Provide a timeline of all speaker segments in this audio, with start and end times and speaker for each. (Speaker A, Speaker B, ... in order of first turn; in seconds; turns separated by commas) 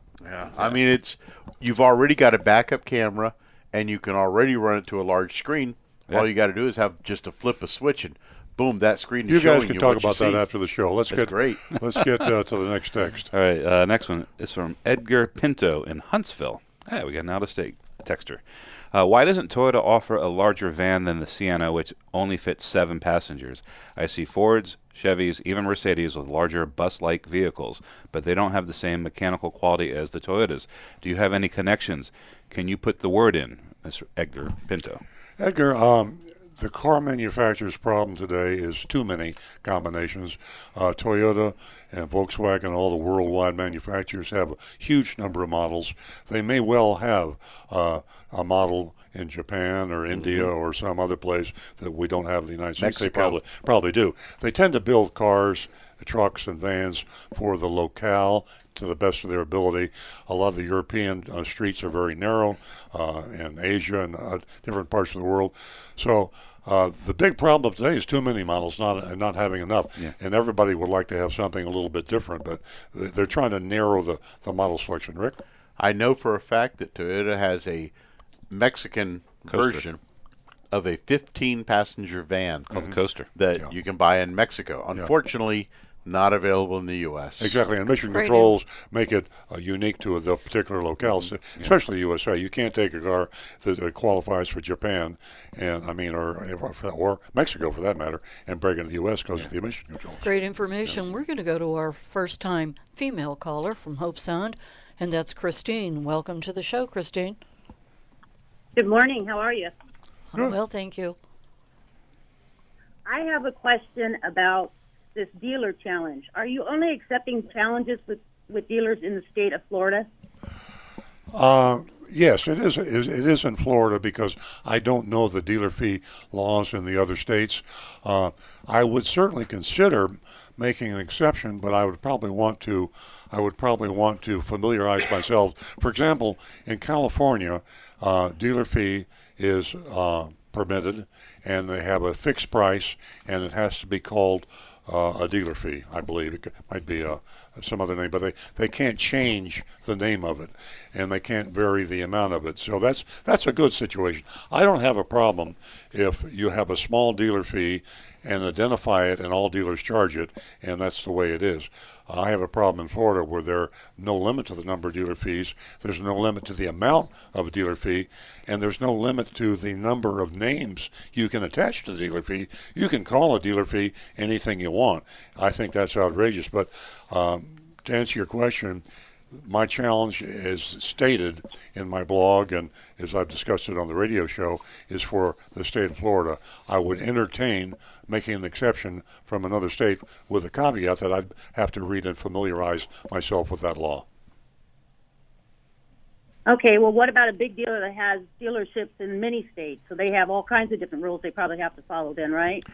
Speaker A: 0.2-10.4, Speaker B: 9.3-13.3, Speaker A: 11.1-11.6, Speaker C: 13.3-35.0, Speaker B: 35.4-75.4, Speaker A: 52.8-53.4, Speaker A: 75.8-77.9, Speaker A: 78.5-80.0, Speaker C: 79.5-79.8, Speaker A: 80.7-82.7, Speaker C: 82.7-83.3, Speaker A: 83.3-87.6, Speaker B: 87.4-100.2, Speaker D: 88.1-88.5, Speaker D: 100.2-107.4, Speaker E: 108.8-109.7, Speaker D: 110.3-111.2, Speaker E: 113.1-120.1, Speaker B: 121.3-194.1, Speaker E: 196.5-202.7